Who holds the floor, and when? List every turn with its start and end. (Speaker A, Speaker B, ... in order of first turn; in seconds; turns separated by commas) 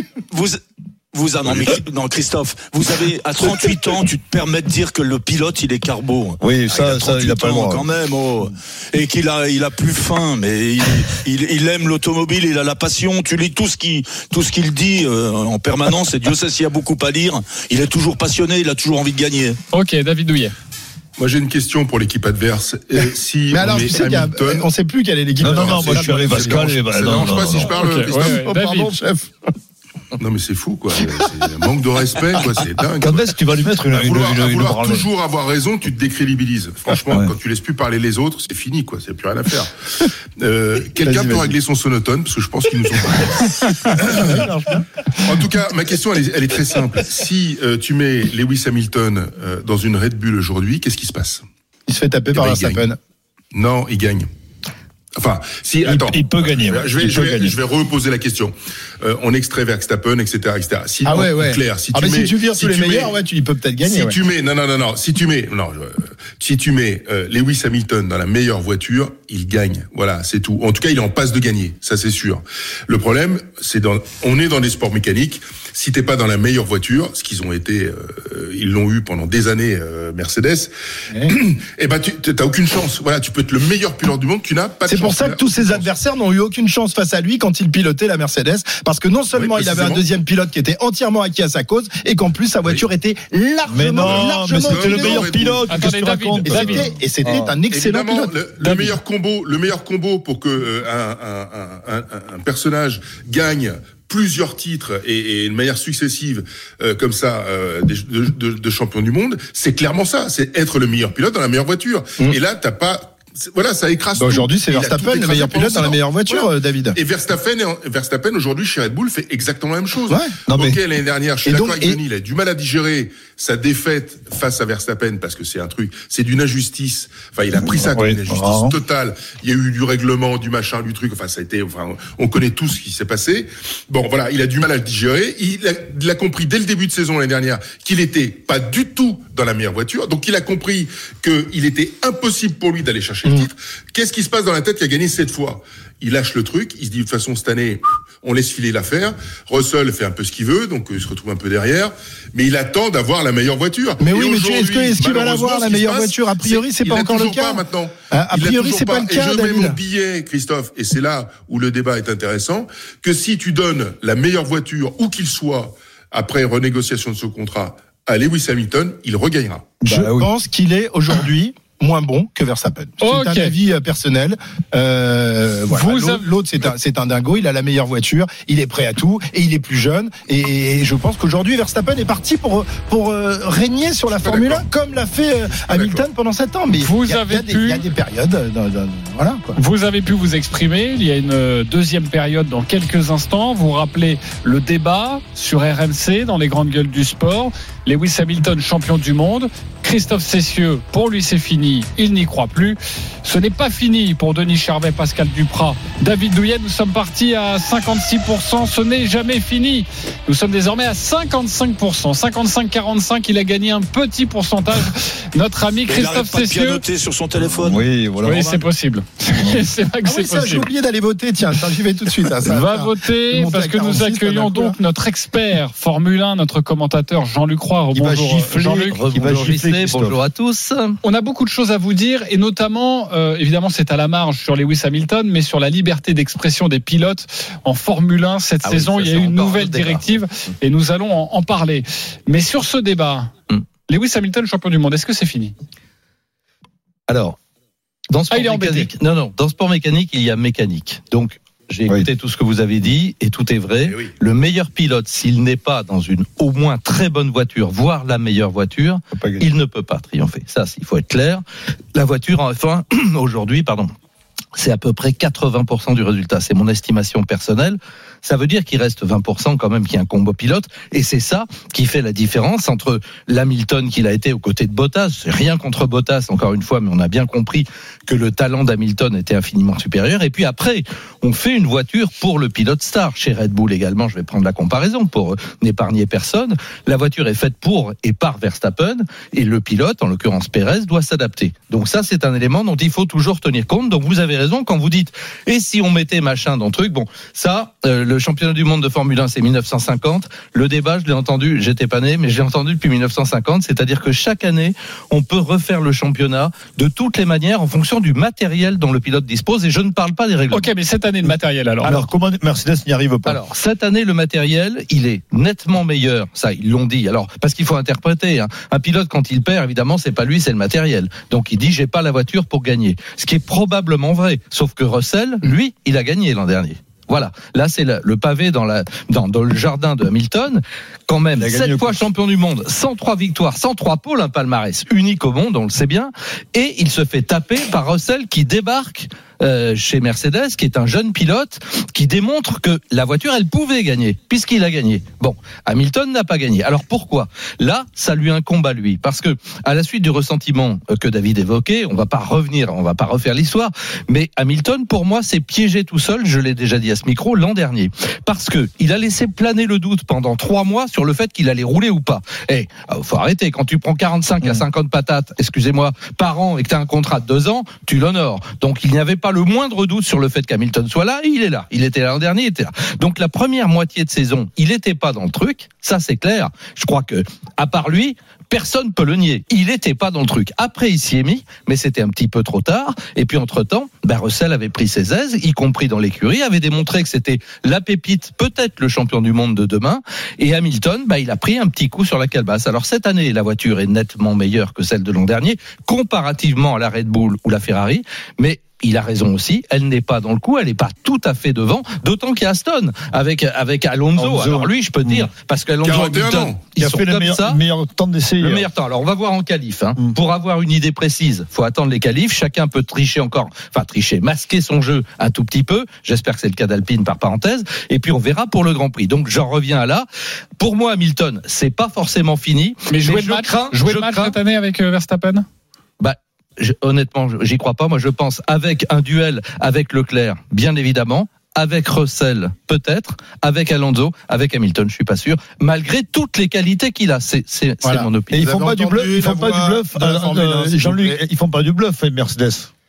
Speaker A: 0.3-0.6, Speaker A: 1.1-19.6, Speaker B: 6.4-7.9, Speaker C: 19.7-20.5, Speaker D: 21.2-24.7, Speaker E: 23.5-29.3, Speaker B: 25.4-27.8, Speaker D: 25.4-28.4, Speaker C: 27.8-28.9, Speaker D: 30.2-33.4, Speaker B: 33.0-35.1, Speaker D: 33.9-44.5, Speaker E: 44.0-44.8, Speaker B: 44.0-44.8, Speaker D: 45.2-51.4, Speaker E: 51.9-53.0, Speaker D: 52.3-52.9, Speaker D: 53.5-54.3, Speaker D: 55.2-63.1, Speaker B: 55.8-57.6, Speaker E: 61.0-64.2, Speaker D: 63.8-80.7, Speaker D: 81.2-85.9, Speaker E: 84.8-95.6, Speaker D: 89.3-90.0, Speaker B: 93.7-97.5, Speaker D: 94.0-95.7, Speaker C: 95.7-96.9, Speaker E: 96.5-98.5, Speaker D: 97.7-169.7, Speaker C: 98.6-98.9, Speaker E: 114.1-117.0, Speaker B: 120.5-120.8, Speaker E: 121.4-122.0, Speaker B: 127.6-128.7, Speaker E: 154.0-159.8, Speaker B: 169.8-170.3, Speaker E: 169.9-189.6, Speaker C: 173.0-173.5, Speaker C: 175.7-176.2, Speaker D: 184.1-184.7, Speaker D: 185.5-186.0, Speaker C: 186.7-187.8, Speaker C: 189.6-216.8, Speaker A: 215.9-217.8, Speaker B: 217.6-218.7, Speaker C: 218.2-220.7, Speaker E: 220.0-224.8, Speaker C: 222.4-229.0, Speaker B: 227.9-230.2, Speaker F: 228.9-231.0, Speaker C: 231.0-243.3, Speaker F: 238.6-240.1, Speaker C: 243.9-245.5, Speaker F: 247.1-247.4, Speaker F: 248.1-261.4, Speaker C: 248.3-248.9, Speaker D: 253.8-254.1, Speaker B: 259.1-259.4, Speaker F: 261.9-263.9, Speaker F: 264.5-310.7, Speaker C: 310.5-312.1, Speaker B: 311.8-313.4, Speaker F: 313.2-407.6, Speaker B: 331.4-332.0, Speaker B: 404.1-405.3, Speaker D: 405.8-406.6, Speaker B: 406.8-408.7, Speaker F: 408.4-420.1, Speaker F: 420.6-424.4, Speaker C: 422.9-425.4, Speaker F: 426.0-438.4, Speaker E: 437.8-441.2, Speaker B: 438.3-442.7